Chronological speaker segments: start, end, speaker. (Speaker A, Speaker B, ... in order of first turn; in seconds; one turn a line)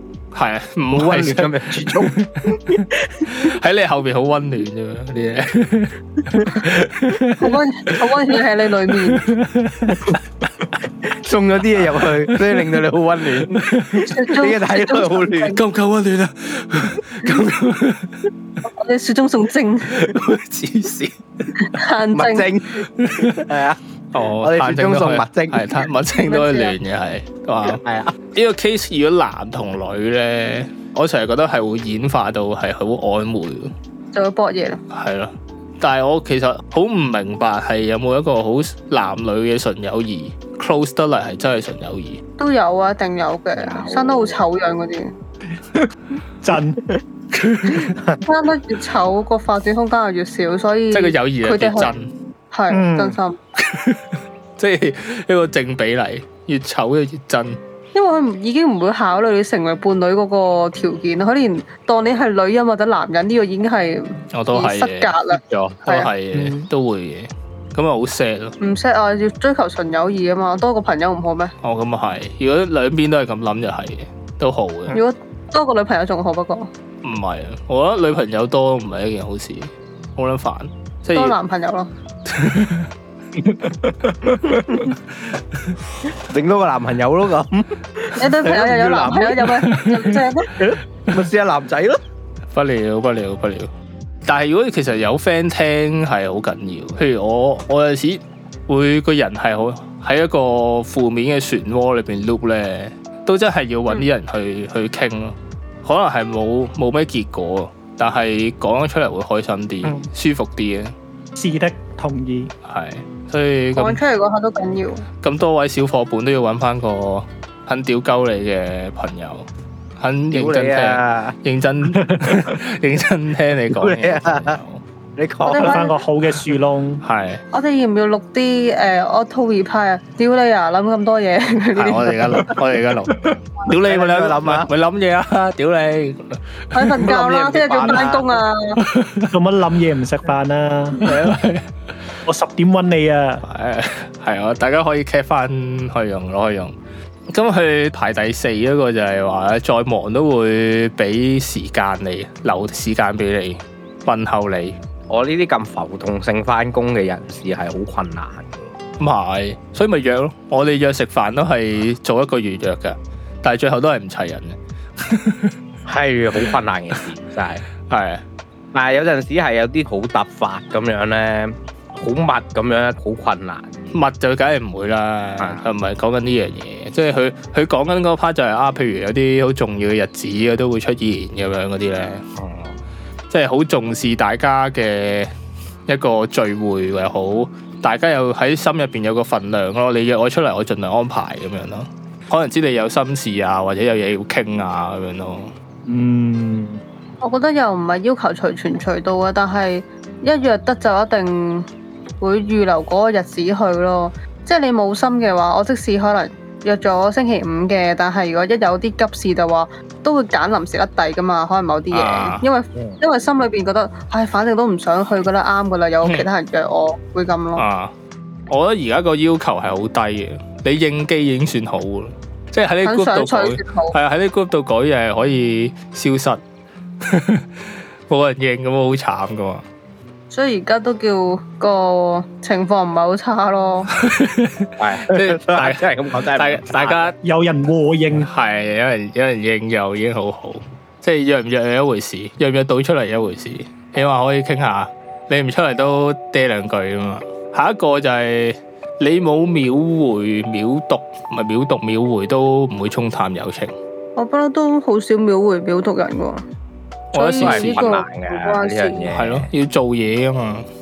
Speaker A: 0.3-2.6
Speaker B: 0.9-3.5
Speaker A: 3.3-7.5
Speaker C: 7.4-9.3
Speaker A: 9.7-10.0
Speaker B: 11.0-15.6
Speaker A: 12.3-12.7
Speaker A: 13.6-14.1
Speaker C: 14.0-15.6
Speaker A: 15.5-18.3
Speaker C: 18.6-20.1
Speaker A: 19.9-21.1
Speaker C: 21.6-22.5
Speaker B: 22.1-23.8
Speaker A: 23.0-23.4
Speaker A: 24.1-33.7
Speaker B: 24.4-25.8
Speaker C: 26.1-26.8
Speaker B: 27.6-28.1
Speaker C: 34.1-34.8
Speaker A: 34.9-42.2
Speaker C: 42.4-45.1
Speaker B: 43.6-44.4
Speaker D: 46.4-46.8
Speaker C: 48.2-51.9
Speaker A: 50.9-52.1
Speaker C: 52.5-53.4
Speaker D: 52.7-53.2
Speaker A: 53.6-54.0
Speaker A: 54.6-57.6
Speaker C: 58.0-66.1
Speaker A: 64.3-65.1
Speaker B: 65.5-65.8
Speaker A: 65.8-68.6
Speaker D: 66.3-66.7
Speaker C: 68.6-71.5
Speaker A: 71.6-75.0
Speaker C: 74.9-76.7
Speaker A: 77.0-81.4
Speaker C: 81.1-81.9
Speaker A: 82.3-82.9
Speaker B: 83.4-84.9
Speaker B: 86.1-89.7
Speaker C: 88.2-90.6
Speaker A: 89.7-90.1
Speaker B: 90.5-92.0
Speaker A: 92.5-93.7
Speaker A: 94.2-110.9
Speaker D: 111.3-112.5
Speaker A: 112.7-114.0
Speaker C: 113.8-115.1
Speaker A: 115.2-119.5
Speaker A: 120.0-124.8
Speaker B: 120.3-121.4
Speaker D: 122.0-122.3
Speaker B: 123.7-124.6
Speaker B: 125.2-125.9
Speaker C: 125.4-126.0
Speaker D: 125.5-127.0
Speaker A: 127.0-127.4
Speaker C: 127.5-132.2
Speaker A: 131.8-137.0
Speaker B: 133.2-134.7
Speaker C: 136.7-138.8
Speaker B: 137.0-138.4
Speaker A: 138.8-139.3
Speaker D: 139.3-141.1
Speaker A: 141.0-141.7
Speaker D: 142.3-143.4
Speaker A: 143.4-146.7
Speaker A: 147.3-154.8
Speaker B: 155.1-158.6
Speaker A: 159.0-165.6
Speaker B: 165.9-167.6
Speaker A: 167.9-168.2
Speaker B: 168.7-173.7
Speaker A: 173.9-182.2
Speaker B: 175.4-175.7
Speaker B: 182.4-182.8
Speaker A: 183.3-185.3
Speaker A: 185.9-195.5
Speaker D: 195.9-196.8
Speaker C: 197.2-201.7
Speaker C: 202.2-217.7
Speaker A: 211.9-212.4
Speaker A: 217.6-217.9
Speaker A: 218.5-226.4
Speaker C: 222.8-224.0
Speaker A: 227.0-229.6
Speaker C: 230.3-233.9
Speaker A: 233.9-237.2
Speaker B: 234.8-237.1
Speaker D: 237.2-238.3
Speaker A: 238.1-253.7
Speaker C: 254.2-256.4
Speaker A: 257.1-258.0
Speaker C: 257.1-259.1
Speaker B: 257.4-259.5
Speaker A: 259.1-260.7